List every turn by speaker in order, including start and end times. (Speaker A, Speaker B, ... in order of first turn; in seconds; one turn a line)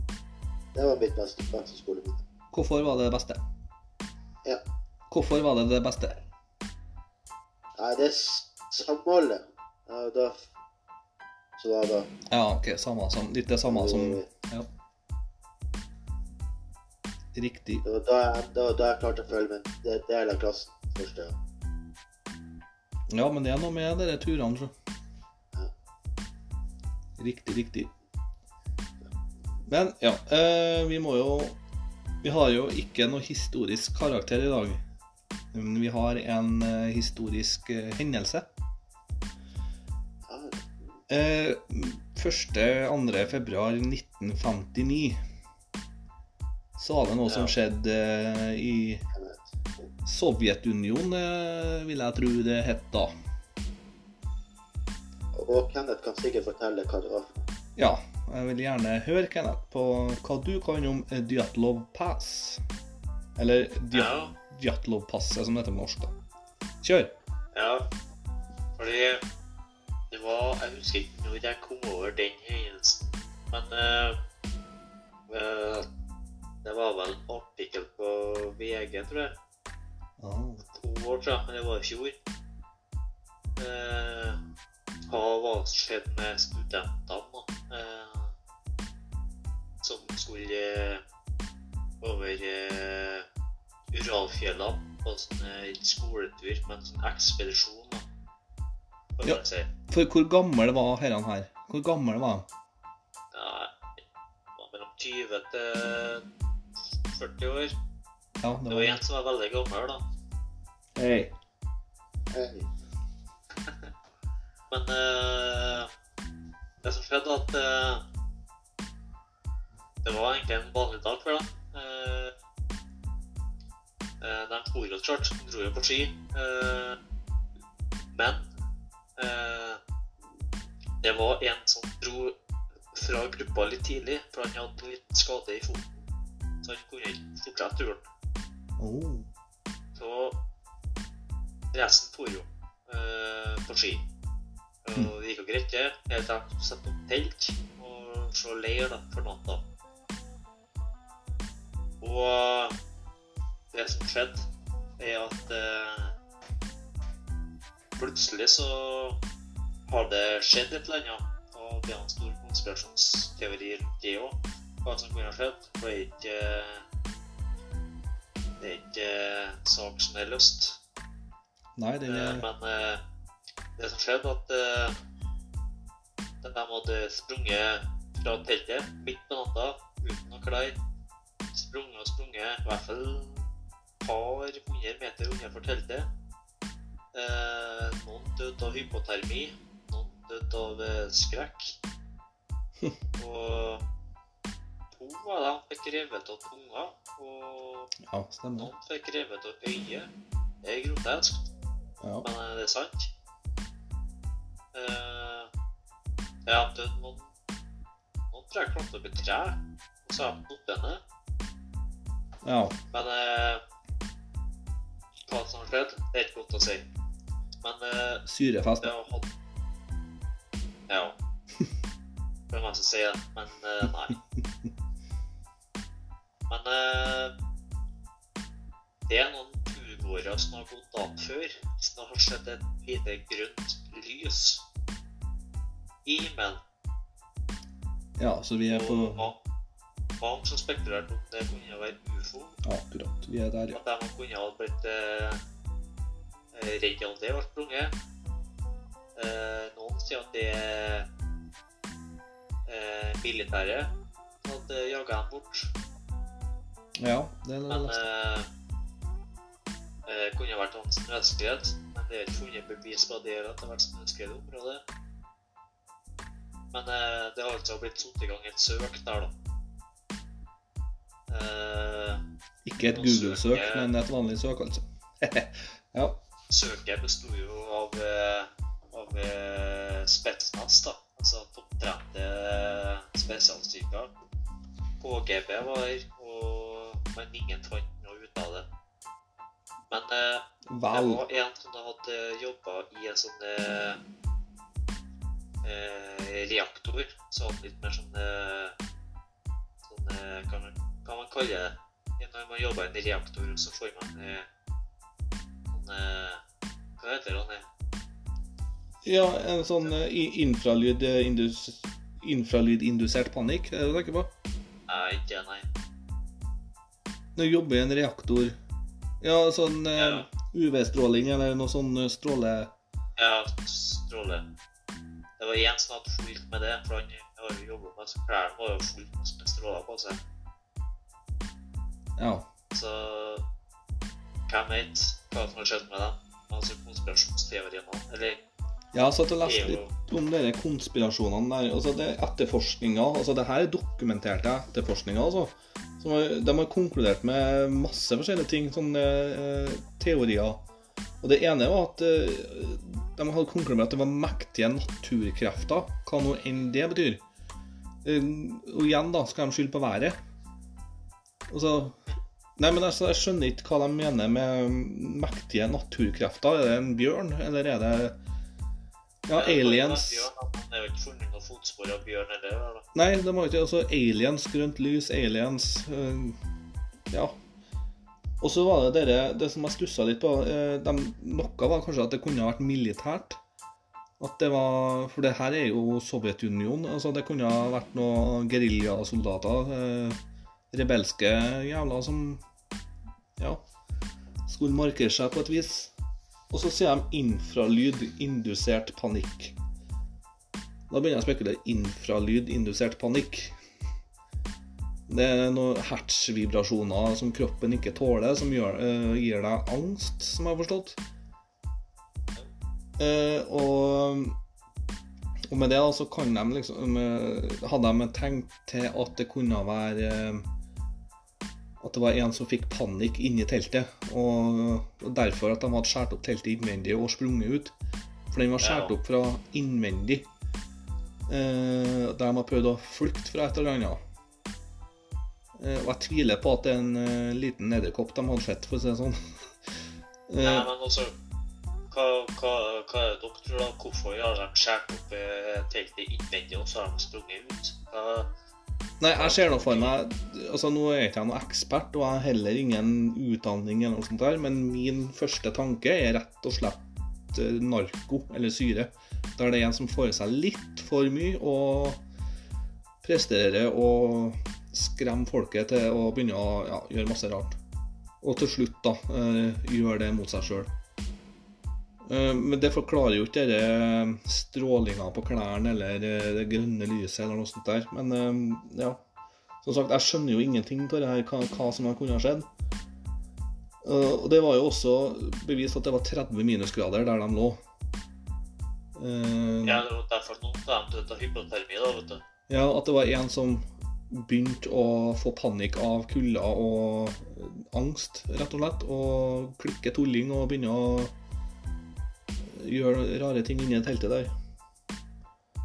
Speaker A: 0.8-2.2
Speaker B: 2.5-3.4
Speaker B: 5.1-6.2
Speaker A: 7.8-10.5
Speaker A: 11.6-12.1
Speaker B: 12.3-14.7
Speaker A: 13.7-14.2
Speaker B: 17.3-17.8
Speaker A: 17.8-21.4
Speaker B: 23.1-24.7
Speaker B: 27.2-27.9
Speaker B: 29.7-31.6
Speaker B: 32.2-34.8
Speaker B: 35.5-38.5
Speaker A: 40.3-40.9
Speaker B: 41.1-45.2
Speaker B: 46.8-49.0
Speaker A: 49.1-49.5
Speaker B: 50.1-53.1
Speaker A: 55.3-57.5
Speaker B: 57.8-62.6
Speaker B: 63.4-66.1
Speaker C: 63.9-64.3
Speaker B: 66.8-67.1
Speaker C: 67.5-67.9
Speaker C: 68.8-69.2
Speaker C: 70.1-74.2
Speaker C: 75.3-75.9
Speaker C: 76.6-79.3
Speaker B: 80.2-80.6
Speaker C: 80.6-82.2
Speaker C: 83.6-84.4
Speaker C: 85.1-88.3
Speaker C: 89.8-91.0
Speaker C: 92.0-93.2
Speaker C: 93.9-98.0
Speaker C: 99.2-99.7
Speaker B: 99.2-102.5
Speaker C: 103.3-103.8
Speaker C: 104.6-106.2
Speaker C: 107.0-107.7
Speaker B: 108.4-109.0
Speaker C: 108.7-110.0
Speaker B: 111.0-111.3
Speaker A: 112.3-112.7
Speaker C: 114.7-115.9
Speaker C: 116.8-118.0
Speaker C: 120.0-122.3
Speaker C: 124.2-127.0
Speaker C: 128.1-128.5
Speaker C: 129.2-129.8
Speaker C: 131.0-132.3
Speaker C: 132.9-136.0
Speaker C: 136.6-138.1
Speaker B: 138.8-139.3
Speaker C: 139.9-140.4
Speaker C: 141.7-144.1
Speaker C: 144.8-149.6
Speaker C: 152.0-152.8
Speaker C: 153.7-156.1
Speaker C: 158.0-159.2
Speaker C: 159.9-166.8
Speaker C: 168.6-170.8
Speaker B: 171.8-172.5
Speaker C: 172.1-173.0
Speaker C: 173.8-175.0
Speaker C: 176.4-180.8
Speaker C: 181.5-183.4
Speaker C: 184.0-186.1
Speaker C: 187.1-191.8
Speaker C: 193.2-193.8
Speaker C: 194.9-197.9
Speaker B: 198.0-198.7
Speaker C: 198.6-200.1
Speaker C: 200.6-201.5
Speaker B: 202.0-202.2
Speaker C: 202.2-203.1
Speaker C: 204.7-205.5
Speaker C: 206.5-207.2
Speaker C: 208.3-211.0
Speaker B: 212.4-212.8
Speaker C: 212.9-213.6
Speaker C: 215.3-216.9
Speaker C: 217.6-218.2
Speaker B: 218.2-218.9
Speaker C: 218.8-219.3
Speaker C: 220.9-221.2
Speaker C: 222.5-224.2
Speaker C: 226.5-227.3
Speaker C: 229.1-234.6
Speaker C: 236.1-236.6
Speaker B: 238.2-239.3
Speaker C: 238.7-239.4
Speaker C: 240.2-242.6
Speaker B: 242.6-243.8
Speaker C: 243.7-245.4
Speaker C: 246.5-247.9
Speaker C: 249.2-251.1
Speaker C: 252.7-255.7
Speaker B: 257.0-258.0
Speaker C: 257.7-258.5
Speaker C: 260.1-264.8
Speaker C: 266.7-269.3
Speaker C: 271.3-272.2
Speaker B: 272.6-276.2
Speaker C: 272.9-273.9
Speaker C: 276.5-284.1
Speaker C: 285.0-288.7
Speaker C: 289.9-294.0
Speaker B: 290.7-291.2
Speaker C: 295.6-298.8
Speaker C: 299.9-304.5
Speaker C: 305.7-306.4
Speaker C: 307.0-307.7
Speaker B: 309.0-314.3
Speaker C: 314.9-315.7
Speaker B: 317.4-318.6
Speaker B: 319.2-322.7
Speaker C: 320.0-320.3
Speaker C: 323.2-324.5
Speaker C: 325.4-330.2
Speaker B: 332.2-332.5
Speaker C: 332.7-333.4
Speaker C: 334.5-338.4
Speaker B: 338.9-350.6
Speaker C: 339.4-339.9
Speaker B: 351.2-357.2
Speaker B: 358.0-360.2
Speaker B: 361.5-362.0
Speaker B: 362.6-368.2
Speaker B: 369.2-370.3
Speaker C: 369.3-372.9
Speaker B: 372.9-376.4
Speaker B: 378.4-383.4
Speaker B: 384.2-390.2
Speaker B: 390.7-392.4
Speaker B: 393.4-393.6
Speaker B: 394.4-395.9
Speaker B: 396.5-399.6
Speaker B: 400.9-403.6
Speaker B: 405.1-411.0
Speaker B: 413.0-414.4
Speaker B: 415.5-420.4
Speaker B: 421.8-427.7
Speaker B: 428.3-430.3
Speaker C: 428.6-428.9
Speaker B: 431.3-434.0
Speaker B: 435.6-439.5
Speaker B: 440.3-440.7
Speaker C: 440.4-441.1
Speaker C: 441.9-448.3
Speaker B: 449.0-462.0
Speaker C: 449.1-449.9
Speaker B: 463.0-467.6
Speaker B: 468.2-470.7
Speaker B: 472.1-479.0
Speaker B: 479.6-482.5
Speaker B: 483.8-487.6
Speaker B: 488.9-489.8
Speaker C: 489.6-492.2
Speaker B: 492.5-501.1
Speaker B: 502.5-504.3